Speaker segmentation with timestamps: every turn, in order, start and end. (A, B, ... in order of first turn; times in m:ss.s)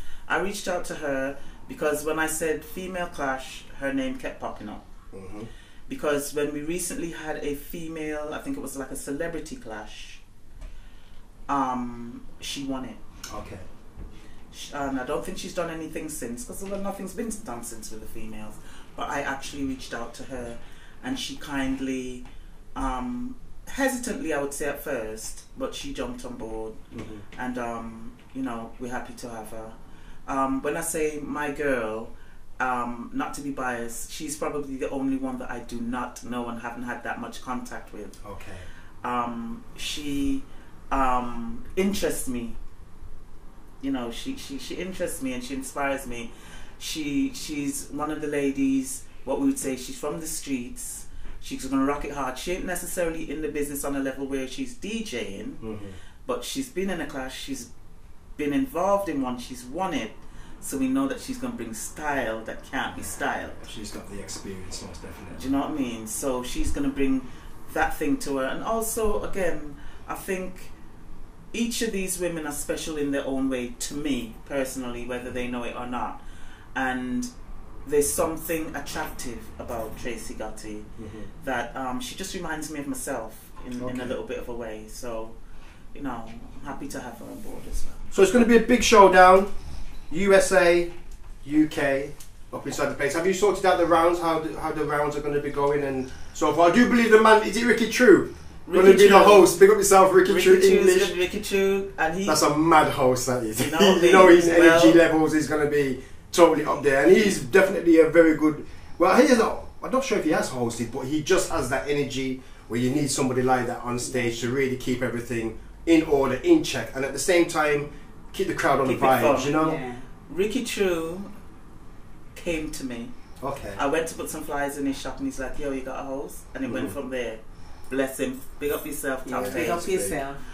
0:00.3-0:04.8 A
0:05.1-0:05.5 B
0:05.9-0:10.2 A
0:11.5-0:13.0 A
0:13.3-0:13.6 B
0:14.5-0:26.8 A
0:26.9-0:27.2 B
0:27.3-0:29.7 A
0:30.3-0:38.1 A
0:38.2-0:38.7 B
0:39.0-0:42.6 A
0:43.8-0:55.6 A
0:55.6-0:56.0 B
0:56.2-0:57.7 A
0:58.4-1:03.6 A
1:03.6-1:05.4 B
1:05.3-1:10.7 A
1:11.5-1:16.2 A
1:16.7-1:17.3 A
1:17.8-1:20.9 A
1:21.0-1:21.3 B
1:21.4-1:25.4 A
1:23.8-1:24.2 B
1:25.9-1:28.1 A
1:28.1-1:29.5 B
1:30.1-1:30.9 B
1:31.4-1:41.1 B
1:38.6-1:39.5 A
1:40.2-1:42.4 A
1:42.2-1:59.8 B
1:43.6-1:45.0 A
1:54.0-1:54.4 C
1:58.8-1:59.6 A
1:59.5-2:00.0 C
2:00.3-2:01.3 A
2:02.3-2:03.1 A
2:03.4-2:03.8 B
2:03.7-2:09.9 A
2:06.6-2:06.9 B
2:09.2-2:10.4 C
2:09.4-2:10.2 B